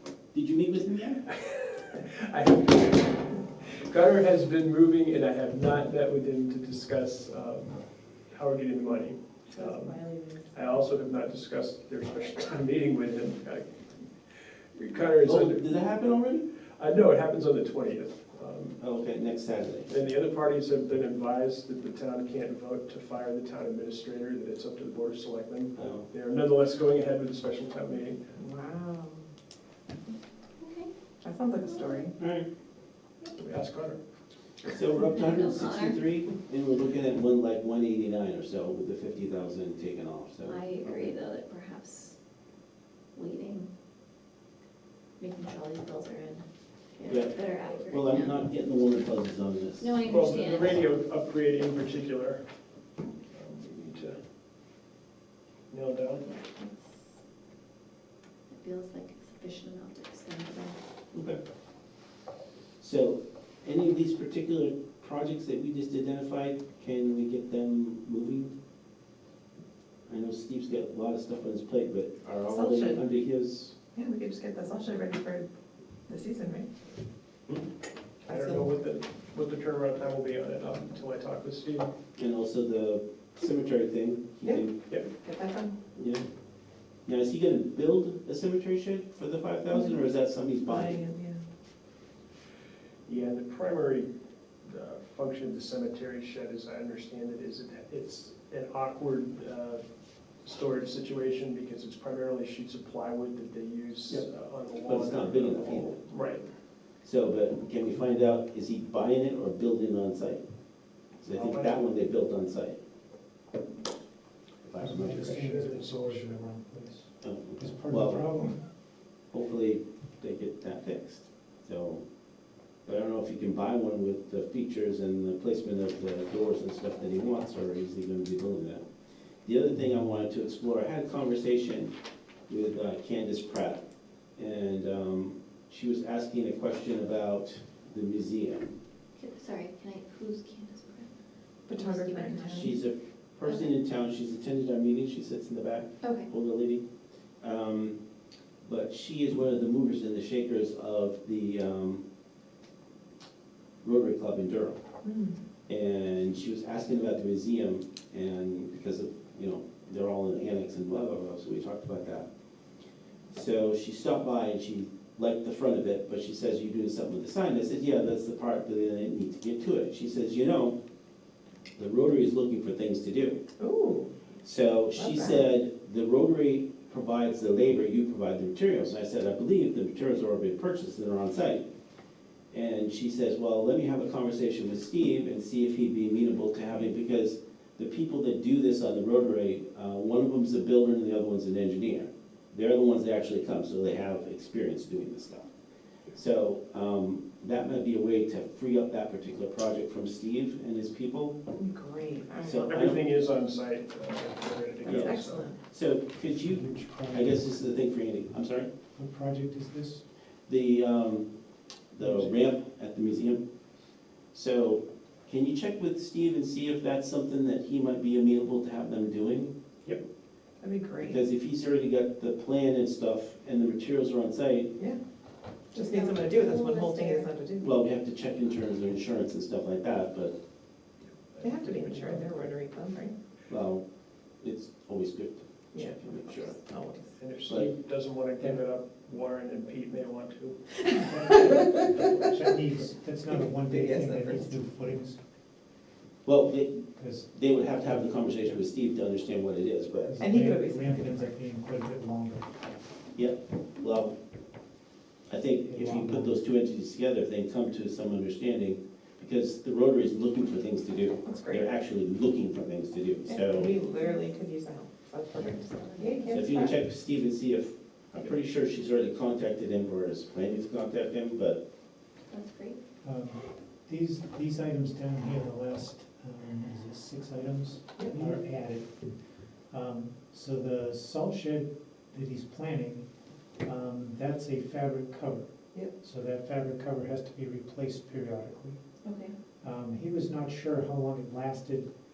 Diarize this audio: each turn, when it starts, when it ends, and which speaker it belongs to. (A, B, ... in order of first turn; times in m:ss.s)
0:00.3-0:01.2 A
0:01.2-0:14.1 B
0:09.5-0:10.7 C
0:14.7-0:15.6 B
0:15.2-0:16.4 A
0:16.8-0:18.8 B
0:18.8-0:19.9 A
0:19.9-0:28.3 B
0:25.8-0:26.1 A
0:28.3-0:29.2 C
0:30.6-0:30.9 D
0:31.2-0:32.2 C
0:31.6-0:32.0 D
0:32.2-0:32.5 A
0:33.3-0:34.0 B
0:34.7-0:41.2 A
0:35.1-0:36.0 D
0:40.4-0:42.2 D
0:43.1-0:43.7 D
0:45.2-0:46.4 D
0:47.0-0:48.4 D
0:47.0-0:47.4 A
0:47.9-0:50.0 A
0:49.8-0:50.8 D
0:50.0-0:52.4 B
0:53.3-0:54.2 B
0:55.7-0:56.2 B
0:56.2-0:57.1 D
0:58.5-1:00.8 D
1:01.1-1:01.4 A
1:02.8-1:08.5 A
1:10.1-1:13.8 A
1:12.4-1:13.0 C
1:13.9-1:15.5 C
1:16.1-1:16.7 C
1:18.2-1:18.7 C
1:18.2-1:21.9 B
1:22.2-1:24.9 A
1:24.4-1:25.8 C
1:25.9-1:26.2 A
1:27.0-1:31.0 A
1:29.7-1:30.0 C
1:30.6-1:31.4 C
1:33.1-1:34.1 B
1:34.6-1:46.5 B
1:44.8-1:46.0 A
1:47.0-1:50.4 A
1:51.2-1:52.8 A
1:51.3-1:52.0 B
1:54.6-1:55.4 A
1:54.8-1:58.6 E
1:54.9-1:56.4 B
1:57.2-1:58.4 A
1:59.3-2:02.0 A
2:02.8-2:08.8 A
2:09.4-2:11.9 A
2:12.5-2:13.8 A
2:14.4-2:18.7 A
2:19.2-2:21.1 D
2:21.7-2:22.7 C
2:21.7-2:22.8 D
2:22.6-2:26.8 A
2:23.4-2:23.7 D
2:26.0-2:26.3 D
2:27.4-2:28.0 A
2:28.6-2:32.0 A
2:33.8-2:34.8 A
2:35.0-2:35.4 C
2:35.7-2:42.3 A
2:43.3-2:50.8 A
2:51.8-2:53.4 A
2:53.6-2:54.1 C
2:54.4-3:01.6 A
2:54.9-2:55.5 C
3:02.5-3:15.5 A
3:16.1-3:21.4 A
3:21.5-3:22.7 C
3:22.4-3:23.0 A
3:22.6-3:25.5 B
3:24.8-3:25.6 C
3:24.8-3:28.7 A
3:26.4-3:27.5 E
3:28.9-3:30.0 E
3:30.5-3:31.3 A
3:31.9-3:33.4 A
3:34.3-3:39.5 A
3:40.6-3:41.2 C
3:41.0-3:44.7 A
3:45.7-3:47.7 C
3:45.7-3:47.3 D
3:47.6-3:50.3 A
3:51.3-3:52.5 B
3:51.4-3:53.1 C
3:53.5-3:53.8 A
3:54.4-3:56.6 A
3:55.7-3:57.2 C
3:57.2-4:02.3 B
3:57.4-3:57.7 A
4:00.8-4:02.5 C
4:01.2-4:05.2 E
4:03.3-4:04.6 C
4:06.2-4:10.2 A
4:06.8-4:08.6 E
4:10.0-4:12.8 E
4:10.2-4:11.3 C
4:13.2-4:14.2 A
4:15.3-4:23.7 A
4:15.6-4:16.4 E
4:21.2-4:21.7 C
4:23.2-4:26.8 C
4:26.0-4:26.4 D
4:26.3-4:31.6 A
4:32.3-4:32.8 D
4:33.0-4:48.8 E
4:38.0-4:38.2 C
4:49.0-4:49.3 D
4:49.6-4:51.9 E